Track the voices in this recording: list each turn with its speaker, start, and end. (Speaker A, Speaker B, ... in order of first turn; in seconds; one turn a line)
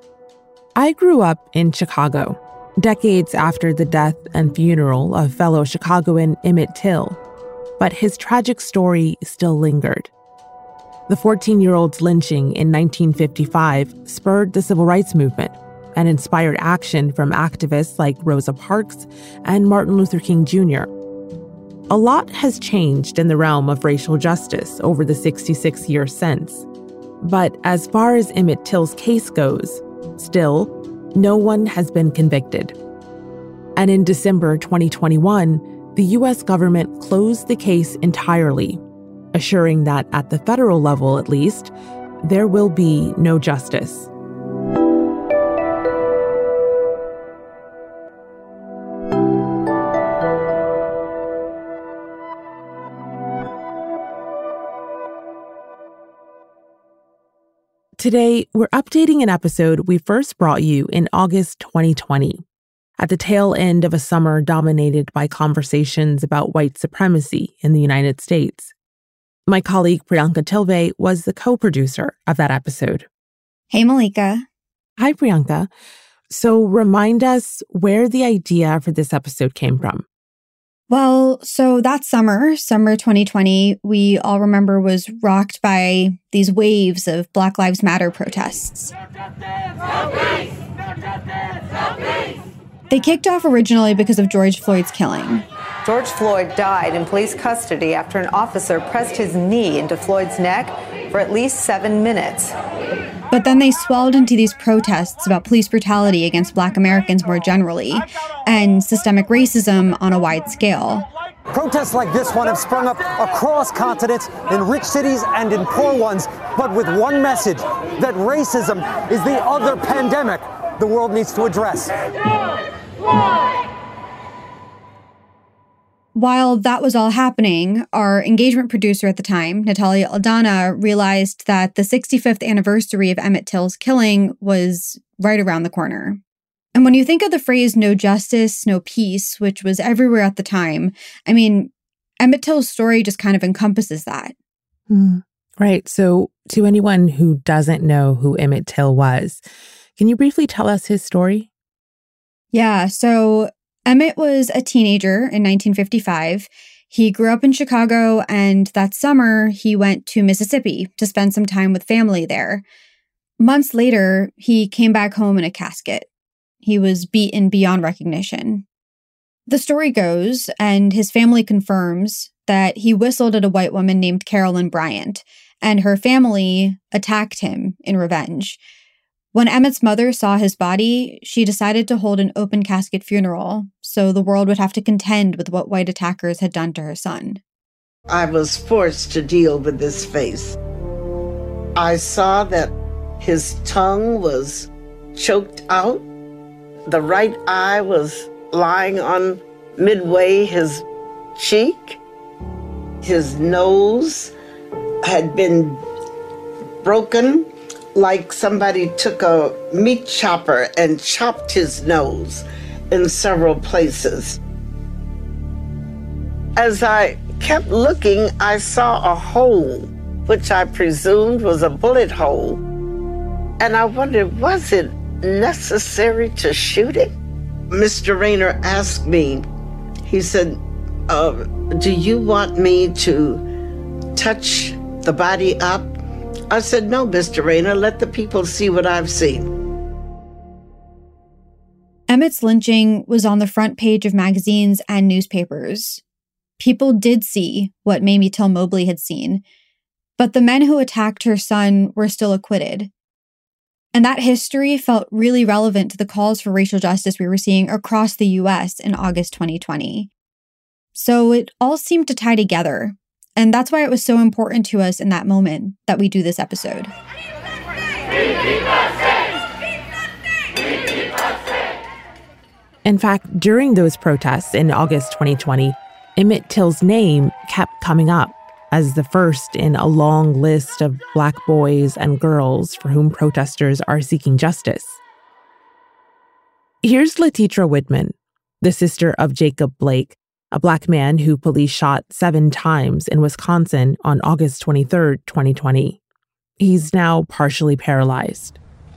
Speaker A: 0.8-7.2
Speaker A: 7.8-10.1
Speaker A: 11.1-20.9
Speaker A: 21.9-26.7
Speaker A: 27.2-32.8
Speaker A: 33.8-38.8
Speaker A: 39.3-44.1
Speaker A: 58.0-62.4
Speaker A: 63.0-68.7
Speaker A: 69.5-73.1
Speaker B: 73.7-74.4
Speaker A: 75.0-75.7
Speaker A: 76.3-80.0
Speaker B: 80.9-88.9
Speaker B: 92.9-95.5
Speaker C: 95.9-102.5
Speaker B: 103.3-111.1
Speaker D: 111.5-121.9
Speaker B: 126.2-136.2
Speaker B: 136.8-144.3
Speaker A: 144.9-149.4
Speaker A: 150.0-151.5
Speaker B: 152.5-162.7
Speaker B: 163.4-166.1
Speaker B: 166.6-168.7
Speaker B: 169.5-178.6
Speaker B: 179.3-187.4
Speaker E: 188.1-190.6
Speaker E: 191.8-196.1
Speaker E: 196.9-200.8
Speaker E: 201.4-202.0
Speaker E: 203.0-204.3
Speaker E: 205.0-205.8
Speaker E: 206.8-214.4
Speaker E: 216.6-222.6
Speaker E: 223.6-227.1
Speaker E: 227.7-229.5
Speaker E: 230.1-233.4
Speaker E: 234.2-236.0
Speaker E: 236.5-239.5
Speaker B: 242.1-246.0
Speaker B: 246.6-249.4
Speaker B: 250.2-252.9
Speaker B: 253.9-260.1
Speaker B: 260.9-266.9
Speaker A: 272.9-285.0
Speaker A: 286.8-296.0
Speaker A: 296.6-298.6